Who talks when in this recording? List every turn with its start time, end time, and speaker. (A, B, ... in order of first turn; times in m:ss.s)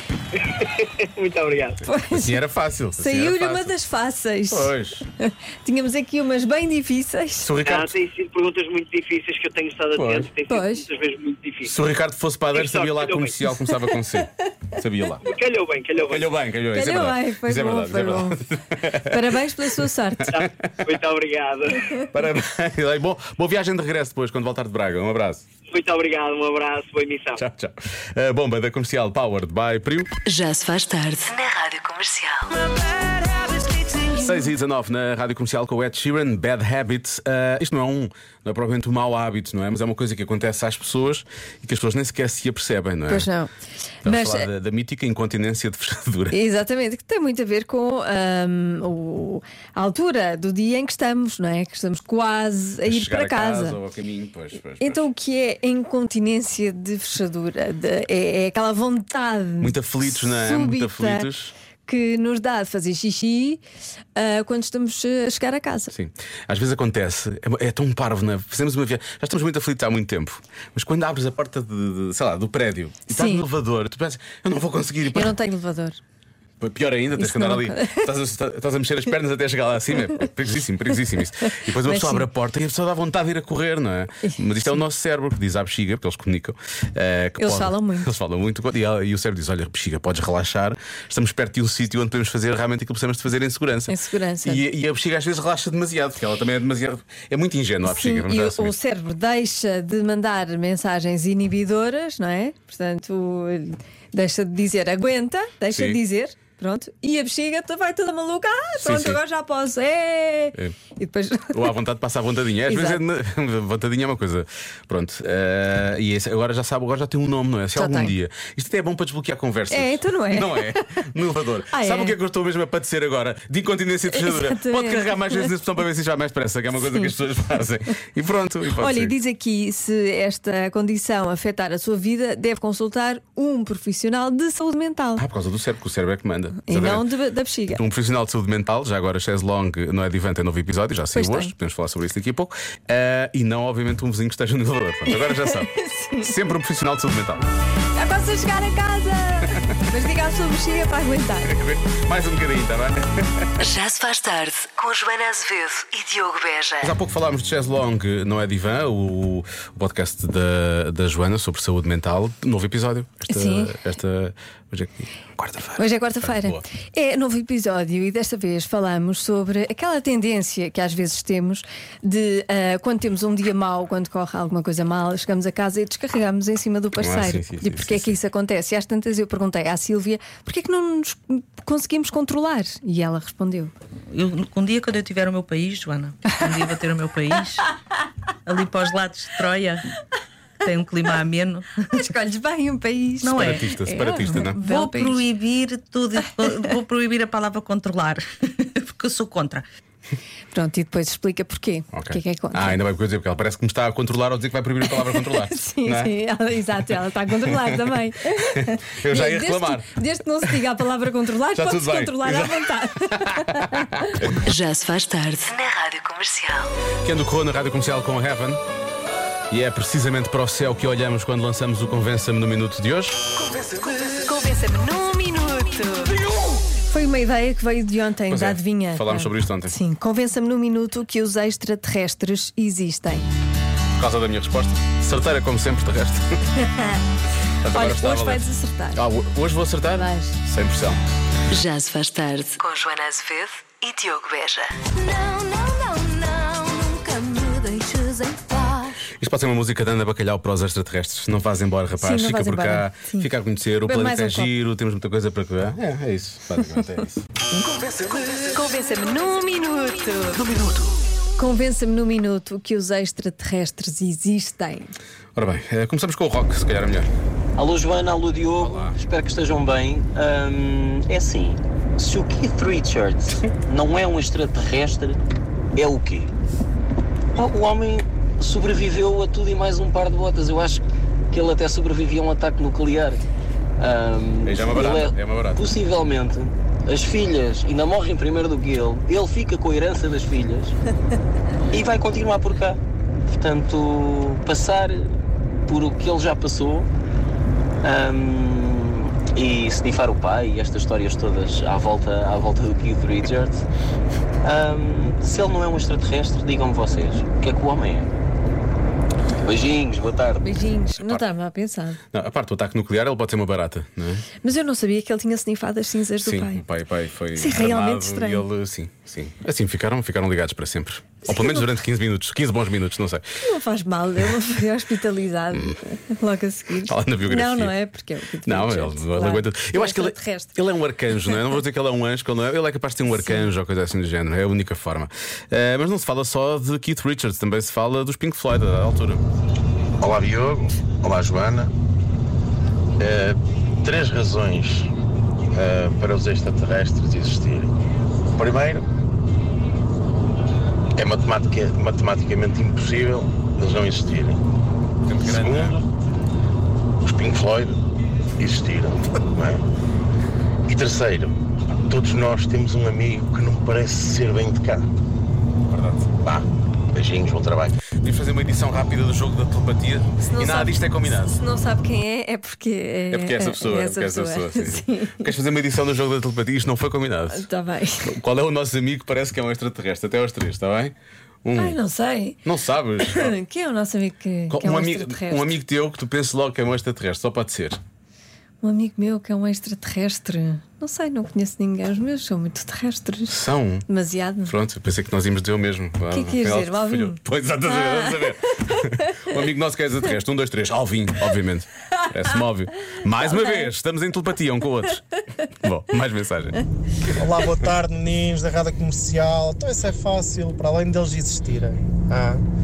0:00.5-0:01.8 A
0:01.8-0:03.8 B
0:01.9-0:02.4 C
0:03.0-0:07.5 C
0:04.5-0:05.0 B
0:07.4-0:07.9 B
0:07.6-0:11.7 A
0:09.9-0:10.3 B
0:10.5-0:10.9 C
0:11.6-0:15.2 B
0:12.5-0:13.4 A
0:15.2-0:16.2 A
0:16.1-0:20.5 B
0:16.7-0:18.4 C
0:19.0-0:20.3 C
0:20.3-0:21.9 A
0:22.0-0:25.4 B
0:25.7-0:27.4 A
0:27.4-0:30.1 B
0:30.3-0:32.5 D
0:34.0-0:43.3 B
0:43.1-0:43.5 C
0:44.0-0:46.4 B
0:44.0-0:44.5 C
0:46.3-0:53.8 C
0:52.8-0:55.0 B
0:54.8-1:01.3 C
0:59.6-1:01.5 B
1:01.8-1:03.6 C
1:04.2-1:05.9 C
1:05.9-1:15.3 B
1:13.1-1:13.4 C
1:15.1-1:16.0 C
1:16.6-1:38.8 B
1:17.2-1:18.1 C
1:21.8-1:22.3 C
1:27.4-1:28.1 C
1:33.9-1:34.6 C
1:37.8-1:51.8 C
1:45.7-1:46.0 B
1:48.8-1:49.2 B
1:51.5-2:09.1 B
1:52.6-1:53.0 C
1:57.7-1:58.2 C
1:59.7-2:01.0 C
2:01.7-2:02.2 C
2:04.1-2:05.5 C
2:08.8-2:15.2 C
2:15.2-2:17.1 B
2:16.6-2:17.8 C
2:17.7-2:27.5 B
2:21.1-2:21.5 C
2:25.1-2:26.3 C
2:27.9-2:31.5 C
2:31.4-2:33.4 B
2:33.6-2:36.9 D
2:36.8-2:46.6 B
2:43.3-2:43.8 C
2:45.8-3:03.7 C
2:57.0-2:58.1 B
3:04.1-3:07.7 E
3:08.4-3:09.9 E
3:10.6-3:12.0 E
3:11.9-3:15.2 C
3:13.2-3:13.6 E
3:13.4-3:14.6 B
3:14.5-3:19.6 E
3:20.5-3:22.8 C
3:21.9-3:26.1 B
3:25.1-3:33.8 C
3:27.4-3:27.8 B
3:28.4-3:29.9 B
3:31.5-3:34.3 B
3:34.4-3:36.7 D
3:37.0-3:38.6 B
3:39.5-3:43.3 B
3:43.9-3:46.2 C
3:46.9-3:53.3 C
3:48.3-3:49.8 B
3:54.0-3:56.2 B
3:57.6-4:01.0 B
3:57.7-3:59.0 C
3:59.9-4:00.4 C
4:01.5-4:08.9 D
4:09.2-4:17.2 B
4:12.0-4:13.3 C
4:13.8-4:14.5 C
4:18.4-4:20.5 C
4:21.4-4:24.9 C
4:25.4-4:27.1 B
4:27.6-4:35.2 F
4:28.6-4:29.0 B
4:35.8-4:36.3 F
4:37.4-4:43.2 F
4:43.8-4:50.7 F
4:44.4-4:45.6 B
4:51.7-4:52.8 F
4:53.3-4:55.0 F
4:55.7-4:56.9 F
4:57.8-5:03.6 F
5:04.4-5:08.1 F
5:09.4-5:10.7 F
5:10.4-5:12.0 C
5:11.0-5:11.2 B
5:12.1-5:14.3 B
5:14.4-5:16.6 C
5:16.2-5:23.2 B
5:17.4-5:18.4 C
5:21.2-5:21.7 C
5:23.4-5:30.6 C
5:25.5-5:25.8 B
5:26.9-5:27.7 B
5:28.4-5:39.2 B
5:33.1-5:33.5 C
5:40.0-5:40.4 G
5:45.6-5:45.9 G
5:48.4-5:48.8 G
5:51.0-5:51.4 G
5:52.7-5:54.0 G
5:55.1-5:55.8 B
5:57.1-5:57.6 G
5:58.4-5:58.8 G
6:01.9-6:04.8 G
6:05.7-6:06.1 B
6:06.9-6:07.2 G
6:07.9-6:11.4 B
6:10.2-6:15.3 C
6:13.1-6:17.5 B
6:17.3-6:18.1 C
6:18.0-6:21.8 B
6:21.6-6:22.4 C
6:22.4-6:23.3 B
6:23.1-6:25.5 C
6:24.5-6:27.8 B
6:28.6-6:34.6 C
6:33.3-6:33.8 B
6:34.4-6:46.6 B
6:36.1-6:37.2 C
6:37.7-6:38.0 C
6:47.2-6:52.4 H